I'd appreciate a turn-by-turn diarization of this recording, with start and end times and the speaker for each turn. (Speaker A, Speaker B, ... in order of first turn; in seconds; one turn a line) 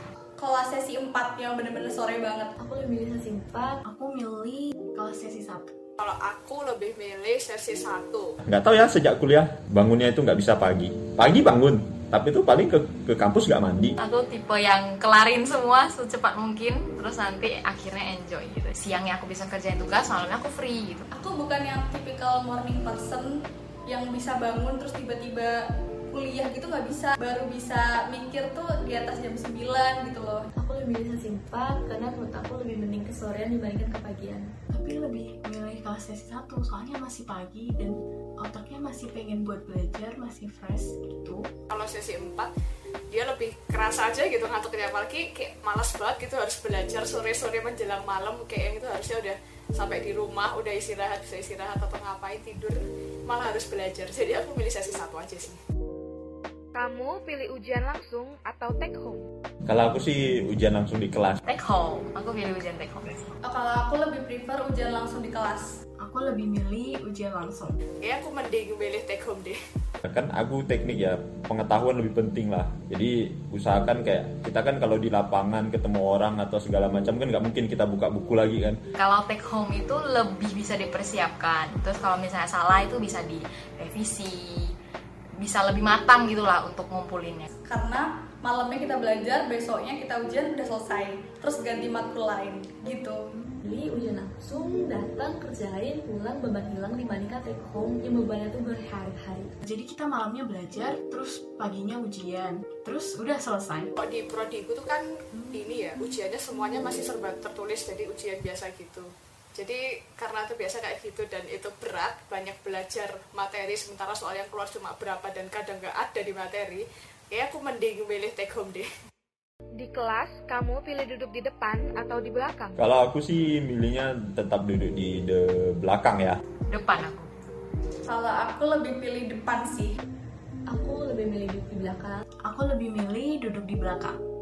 Speaker A: 0.4-2.5
Speaker B: 2.6-3.8
Speaker C: 3.9-5.7
Speaker D: 6.0-8.3
Speaker E: 8.4-14.0
Speaker F: 14.0-21.1
Speaker A: 21.1-25.6
Speaker A: 26.1-30.4
Speaker B: 30.6-34.5
Speaker C: 34.7-41.5
Speaker D: 41.7-42.5
Speaker D: 43.1-55.6
Speaker G: 56.8-59.2
Speaker E: 59.7-61.4
Speaker F: 61.5-63.3
Speaker A: 63.5-65.7
Speaker C: 66.0-67.8
Speaker D: 68.0-69.6
Speaker E: 70.0-78.8
Speaker F: 79.0-84.7
Speaker F: 85.4-87.5
Speaker A: 87.7-93.2
Speaker B: 93.6-99.5
Speaker C: 99.6-103.9
Speaker D: 104.1-105.0
Speaker D: 105.6-118.9
Speaker G: 119.8-122.8
Speaker E: 122.8-126.4
Speaker F: 126.7-127.3
Speaker A: 128.1-129.9
Speaker B: 130.7-132.2
Speaker C: 132.5-134.2